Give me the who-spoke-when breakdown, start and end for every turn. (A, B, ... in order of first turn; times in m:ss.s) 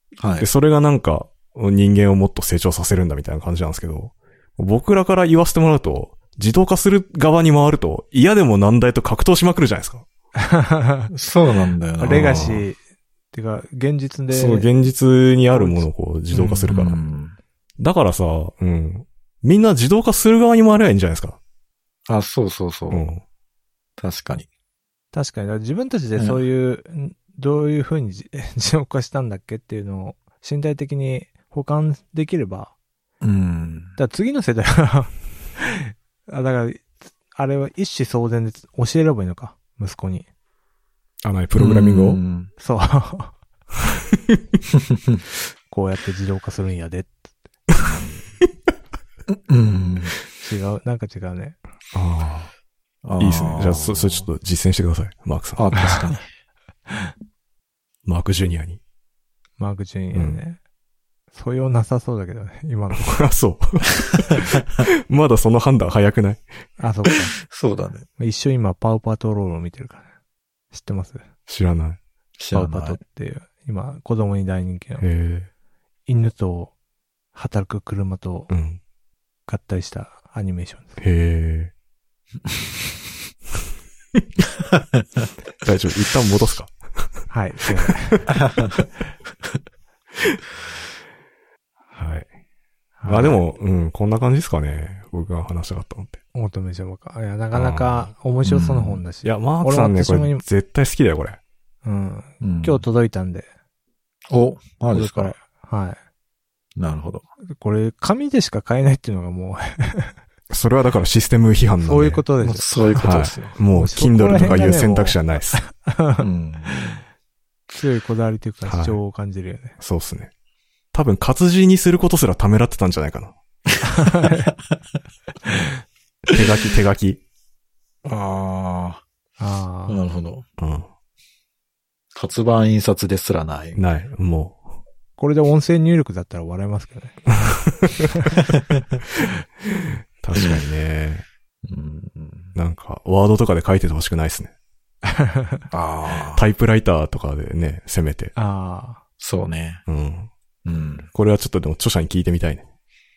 0:00.2-0:00.5 A
0:00.4-0:10.1 B
0:10.4-0:11.1 C
0:11.1-0:12.6 A
0:12.0-0:12.8 C
0:12.1-0:12.6 B
0:13.3-0:14.7 C
0:14.3-0:17.0 B
0:15.5-0:15.9 C
0:16.3-0:17.4 A
0:17.8-0:21.4 B
0:22.1-0:23.1 A
0:22.9-0:23.2 B
0:24.0-0:24.5 A
0:25.1-0:32.7 C
0:26.2-0:26.4 A
0:33.2-0:34.0 A
0:34.0-0:40.3 C
0:41.2-0:42.2 B
0:41.6-0:42.5 A
0:42.6-0:43.4 C
0:44.9-0:45.2 A
0:45.7-0:47.3 C
0:47.8-0:48.2 A
0:49.3-0:50.2 A
0:50.4-0:51.6 C
0:51.9-0:52.5 B
0:53.0-0:54.3 A
0:53.2-0:55.8 B
0:55.6-0:56.3 A
0:58.0-0:58.8 B
0:59.6-1:00.6 C
1:00.1-1:00.4 B
1:01.3-1:03.2 C
1:03.0-1:06.4 B
1:06.8-1:07.4 C
1:07.5-1:08.1 A
1:08.2-1:10.1 C
1:10.7-1:11.2 C
1:11.5-1:12.0 B
1:12.4-1:13.0 A
1:12.5-1:15.1 C
1:15.0-1:15.5 B
1:16.1-1:16.7 C
1:17.3-1:18.5 C
1:18.5-1:18.8 B
1:19.5-1:21.0 C
1:21.0-1:21.7 B
1:25.6-1:27.3 B
1:27.3-1:28.3 C
1:31.9-1:32.3 B
1:33.0-1:33.4 C
1:33.1-1:36.2 B
1:36.3-1:40.4 C
1:37.5-1:38.1 B
1:38.4-1:39.0 A
1:39.2-1:41.4 B
1:41.8-1:43.5 C
1:42.4-1:42.8 A
1:44.3-1:45.4 A
1:44.9-1:46.0 C
1:46.8-1:47.3 A
1:47.5-1:50.2 C
1:50.5-1:52.2 B
1:51.8-1:52.7 C
1:52.4-1:53.6 A
1:53.0-1:55.6 B
1:53.7-1:56.3 C
1:56.2-1:57.0 A
1:57.7-1:59.8 C
1:58.6-1:59.0 B
1:59.8-2:00.3 B
2:00.9-2:03.4 B
2:03.8-2:04.5 C
2:06.3-2:07.2 B
2:08.0-2:09.0 A
2:09.4-2:10.0 C
2:09.9-2:10.5 A
2:10.6-2:10.9 B
2:12.2-2:13.8 A
2:13.8-2:14.6 B
2:15.2-2:18.4 C
2:20.2-2:21.3 B
2:20.4-2:20.6 A
2:21.6-2:22.6 A
2:22.6-2:24.5 B
2:25.1-2:25.6 C
2:25.7-2:26.4 A
2:26.4-2:28.3 B
2:28.4-2:29.0 C
2:29.2-2:29.8 A
2:29.9-2:30.3 B
2:30.6-2:31.1 A
2:31.1-2:32.6 B